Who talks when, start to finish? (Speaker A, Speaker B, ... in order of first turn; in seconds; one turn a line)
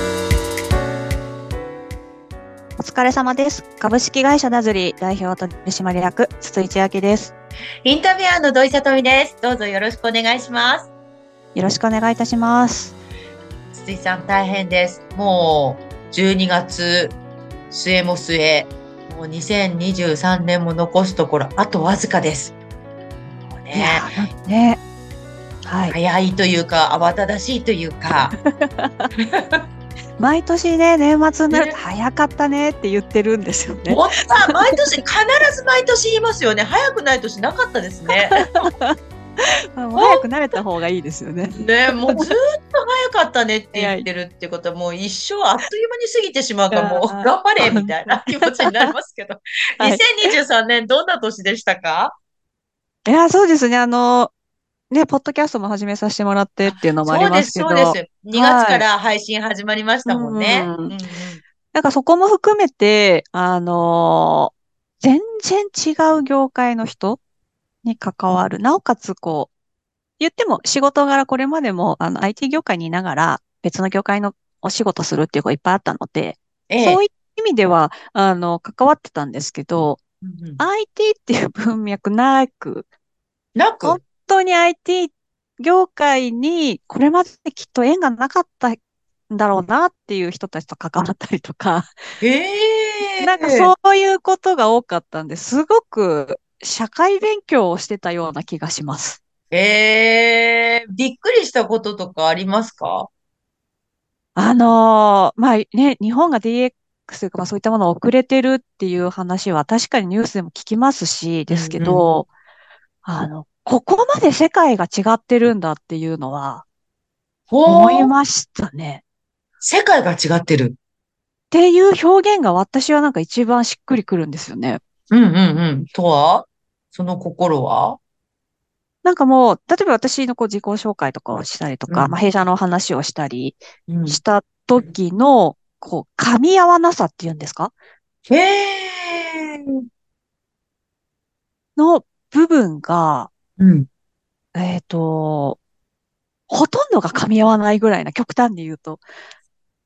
Speaker A: 2.8-7.3
Speaker B: 7.8-10.9
Speaker A: 11.5-12.9
Speaker B: 13.7-17.2
Speaker B: 17.7-22.5
Speaker B: 23.5-24.2
Speaker A: 23.7-24.8
Speaker A: 25.6-25.9
Speaker B: 25.9-28.3
Speaker A: 28.4-29.1
Speaker B: 29.4-29.6
Speaker A: 30.2-34.8
Speaker B: 31.5-31.8
Speaker B: 33.9-38.6
Speaker A: 38.1-39.0
Speaker A: 39.7-42.3
Speaker B: 39.9-40.2
Speaker B: 41.6-52.1
Speaker A: 43.7-44.0
Speaker A: 46.7-48.9
Speaker A: 49.8-50.3
Speaker A: 53.0-54.3
Speaker A: 54.9-58.8
Speaker B: 56.6-61.4
Speaker A: 60.0-60.9
Speaker A: 61.7-67.2
Speaker A: 67.8-69.5
Speaker A: 70.2-80.0
Speaker B: 76.7-77.0
Speaker B: 80.2-80.6
Speaker A: 80.6-82.9
Speaker B: 83.5-84.0
Speaker A: 83.8-88.8
Speaker A: 89.3-91.9
Speaker B: 92.2-93.7
Speaker A: 93.2-99.2
Speaker B: 99.5-103.1
Speaker A: 104.3-112.3
Speaker B: 111.5-112.0
Speaker A: 113.0-116.6
Speaker B: 117.5-118.1
Speaker A: 117.7-119.0
Speaker B: 119.6-120.8
Speaker A: 121.5-124.8
Speaker B: 125.1-128.0
Speaker A: 129.0-137.7
Speaker B: 131.9-132.2
Speaker B: 133.9-134.2
Speaker B: 138.3-139.7
Speaker A: 141.8-143.3
Speaker B: 143.6-143.9
Speaker A: 144.5-145.6
Speaker A: 146.5-149.0